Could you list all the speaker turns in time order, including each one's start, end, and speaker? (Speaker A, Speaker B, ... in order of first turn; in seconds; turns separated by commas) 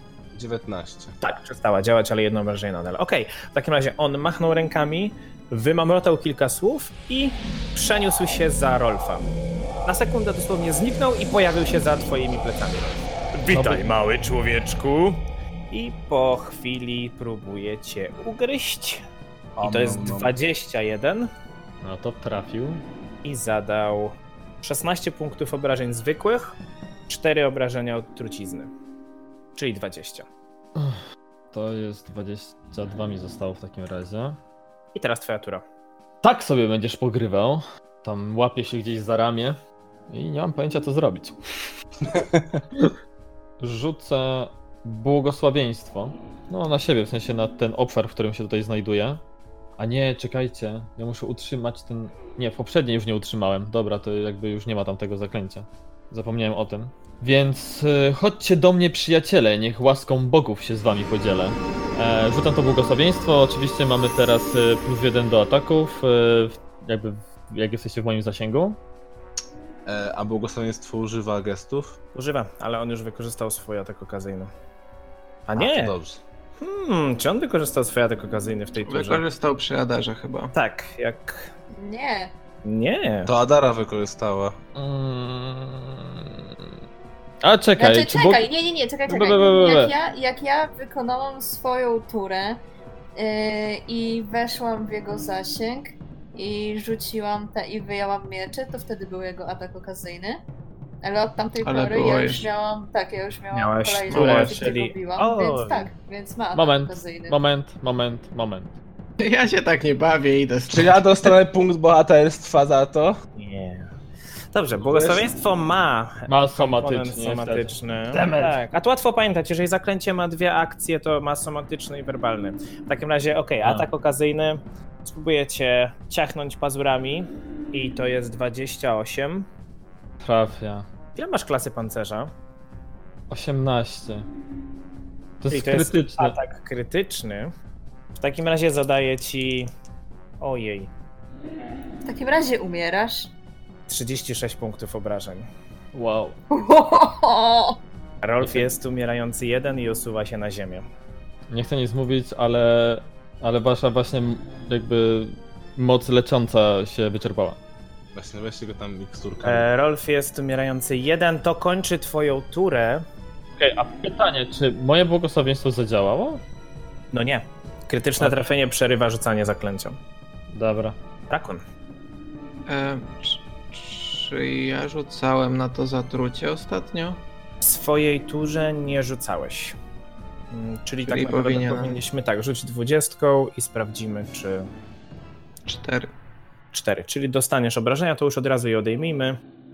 Speaker A: 0.3-1.1, Speaker B: 1.2-9.3, Speaker B: 9.8-19.0, Speaker C: 13.5-13.8, Speaker A: 19.6-20.3, Speaker B: 19.6-21.3, Speaker C: 21.8-22.8, Speaker B: 23.2-26.6, Speaker B: 27.1-28.7, Speaker B: 29.6-30.3, Speaker C: 30.8-34.4, Speaker B: 35.0-35.6, Speaker C: 36.2-41.4, Speaker A: 42.1-42.6, Speaker C: 43.6-49.2, Speaker C: 49.8-68.8, Speaker A: 69.9-72.0, Speaker B: 72.2-74.5, Speaker B: 75.5-76.0, Speaker A: 75.6-76.2, Speaker B: 76.6-79.2, Speaker D: 78.8-80.5, Speaker B: 80.5-81.5, Speaker E: 81.7-82.3, Speaker B: 82.6-83.3, Speaker A: 83.3-84.6, Speaker C: 84.8-86.7, Speaker C: 87.4-88.4, Speaker E: 87.8-92.6, Speaker C: 89.1-89.9, Speaker E: 93.2-100.4, Speaker E: 101.0-107.4, Speaker D: 101.6-102.5, Speaker B: 103.5-105.9, Speaker D: 104.1-104.6, Speaker C: 106.5-108.7, Speaker D: 109.2-111.3, Speaker A: 110.7-113.2, Speaker B: 113.4-113.9, Speaker B: 114.5-129.5, Speaker A: 114.8-115.3, Speaker C: 116.3-118.6, Speaker C: 130.2-130.9, Speaker B: 131.2-132.3, Speaker C: 133.3-134.3, Speaker C: 135.4-136.4, Speaker B: 135.5-137.5, Speaker B: 138.2-139.7, Speaker B: 140.4-140.9, Speaker E: 142.1-143.3, Speaker B: 143.9-145.5, Speaker C: 145.9-146.4, Speaker E: 146.5-147.8, Speaker B: 148.2-150.8, Speaker C: 148.4-148.7, Speaker C: 151.5-157.6, Speaker A: 158.1-159.7, Speaker B: 159.4-163.1, Speaker C: 163.6-166.4, Speaker B: 167.1-170.0, Speaker C: 168.2-168.5, Speaker C: 170.5-171.0, Speaker B: 171.3-171.6, Speaker D: 172.7-177.2, Speaker B: 177.6-179.8, Speaker B: 180.5-184.7, Speaker D: 181.1-182.0, Speaker D: 185.7-186.1, Speaker B: 186.7-189.4